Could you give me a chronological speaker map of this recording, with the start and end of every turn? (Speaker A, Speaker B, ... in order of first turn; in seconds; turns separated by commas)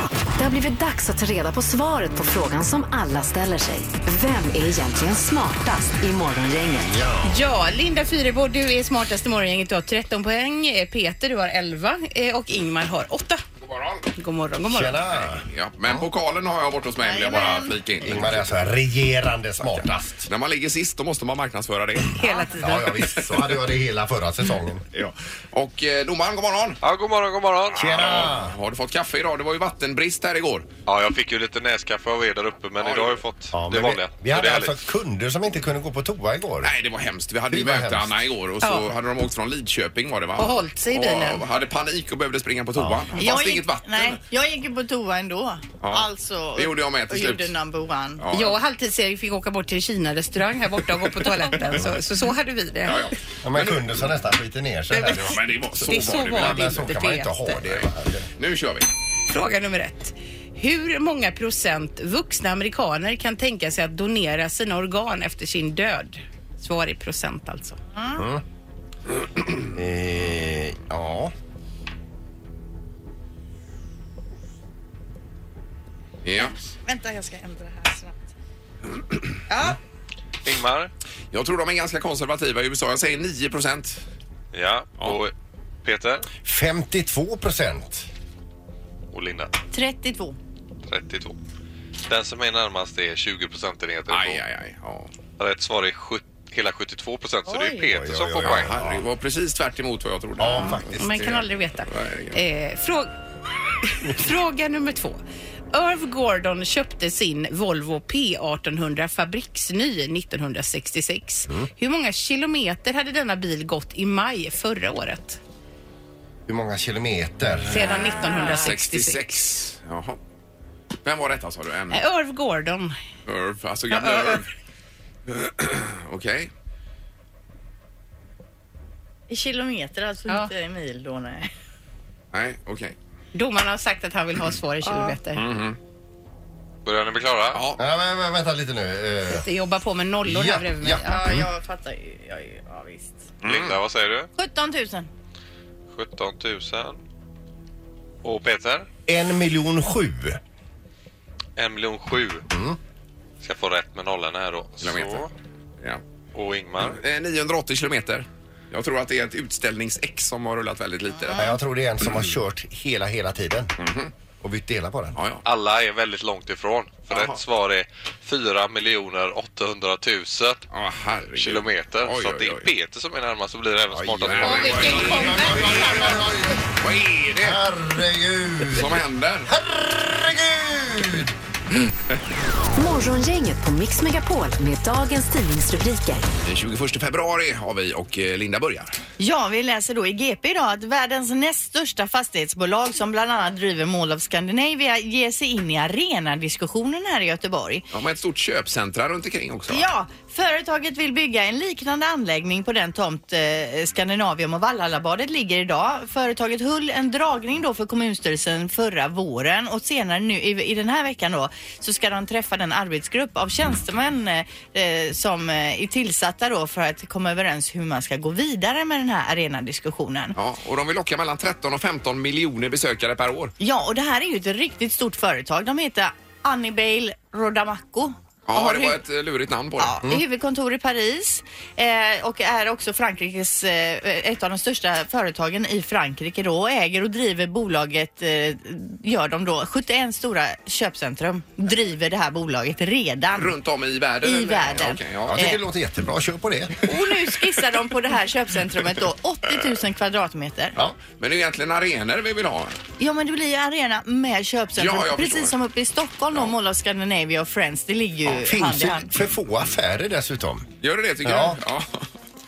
Speaker A: 0.4-6.9, Speaker B: 6.8-7.3, Speaker C: 7.2-13.4, Speaker D: 13.6-14.1, Speaker C: 14.2-15.0, Speaker B: 14.7-15.4, Speaker D: 15.1-18.7, Speaker E: 17.0-17.7, Speaker B: 18.0-20.3, Speaker D: 19.6-22.2, Speaker C: 22.1-22.9, Speaker B: 22.6-24.8, Speaker D: 24.9-26.8, Speaker F: 26.8-27.8, Speaker B: 27.7-28.6, Speaker D: 27.7-30.7, Speaker F: 30.9-34.7, Speaker D: 32.8-33.2, Speaker B: 33.5-36.7, Speaker D: 36.6-44.2, Speaker B: 37.5-38.1, Speaker C: 38.6-38.9, Speaker C: 40.4-41.4, Speaker B: 42.8-43.1, Speaker E: 43.2-48.2, Speaker D: 45.8-47.5, Speaker D: 48.2-48.6, Speaker C: 48.3-53.1, Speaker D: 52.8-54.1, Speaker B: 53.4-58.3, Speaker C: 54.9-57.6, Speaker D: 55.2-56.9, Speaker D: 58.4-58.9, Speaker C: 59.3-67.8, Speaker E: 68.0-68.2, Speaker B: 68.2-68.4, Speaker B: 69.7-71.3, Speaker D: 76.2-76.5, Speaker E: 76.4-78.2, Speaker E: 79.5-79.8, Speaker F: 80.4-80.9, Speaker D: 81.3-84.0, Speaker F: 84.5-85.3, Speaker F: 85.8-86.3, Speaker B: 86.4-88.1, Speaker F: 89.1-89.5, Speaker E: 89.7-90.4, Speaker F: 90.9-91.3, Speaker F: 92.1-94.4, Speaker D: 94.1-95.1, Speaker F: 95.4-98.7, Speaker E: 97.5-97.9, Speaker B: 97.9-99.0, Speaker D: 98.4-102.4, Speaker B: 100.4-101.3, Speaker C: 100.5-103.1, Speaker C: 103.8-105.2, Speaker C: 105.7-115.4, Speaker B: 116.5-117.8, Speaker C: 117.7-119.2, Speaker D: 117.8-120.2, Speaker E: 118.2-118.6, Speaker D: 121.0-122.0, Speaker C: 121.9-123.0, Speaker D: 123.2-124.5, Speaker C: 123.9-124.4, Speaker D: 125.3-126.5, Speaker E: 129.3-131.5, Speaker D: 132.3-132.9, Speaker C: 133.3-135.4, Speaker E: 134.8-135.2, Speaker D: 135.3-135.8, Speaker F: 136.8-137.6, Speaker D: 137.5-137.8, Speaker B: 137.8-139.4, Speaker C: 139.3-141.2, Speaker B: 140.2-141.4, Speaker E: 141.0-143.3, Speaker F: 143.4-144.3, Speaker D: 143.4-143.8, Speaker E: 144.3-145.1, Speaker F: 145.9-147.0, Speaker F: 148.2-148.9, Speaker B: 149.1-150.4, Speaker F: 151.6-152.4, Speaker B: 152.5-152.8, Speaker F: 153.4-155.3, Speaker D: 154.8-155.3, Speaker F: 156.3-157.0, Speaker D: 156.8-161.4, Speaker E: 161.2-161.5, Speaker B: 161.3-163.7, Speaker D: 163.8-164.1, Speaker B: 164.4-165.2, Speaker D: 165.1-165.4, Speaker F: 165.4-170.6, Speaker D: 167.1-167.4, Speaker D: 170.7-172.7, Speaker F: 171.4-174.6, Speaker B: 173.9-176.6, Speaker D: 174.2-176.2, Speaker C: 174.4-176.2, Speaker D: 176.8-177.6, Speaker B: 177.4-181.3, Speaker D: 178.7-179.5, Speaker A: 182.8-186.2, Speaker D: 186.4-189.0, Speaker E: 189.2-197.8, Speaker D: 197.9-199.8, Speaker E: 199.7-220.3, Speaker D: 220.3-223.5, Speaker E: 223.6-229.0, Speaker D: 228.5-230.0, Speaker E: 229.8-243.5, Speaker D: 243.3-245.5, Speaker E: 244.2-245.6, Speaker B: 245.3-246.9, Speaker E: 246.8-250.8, Speaker D: 251.0-252.8, Speaker E: 253.0-259.1, Speaker D: 254.8-255.5, Speaker B: 258.2-260.7, Speaker D: 260.8-262.1, Speaker B: 261.2-261.6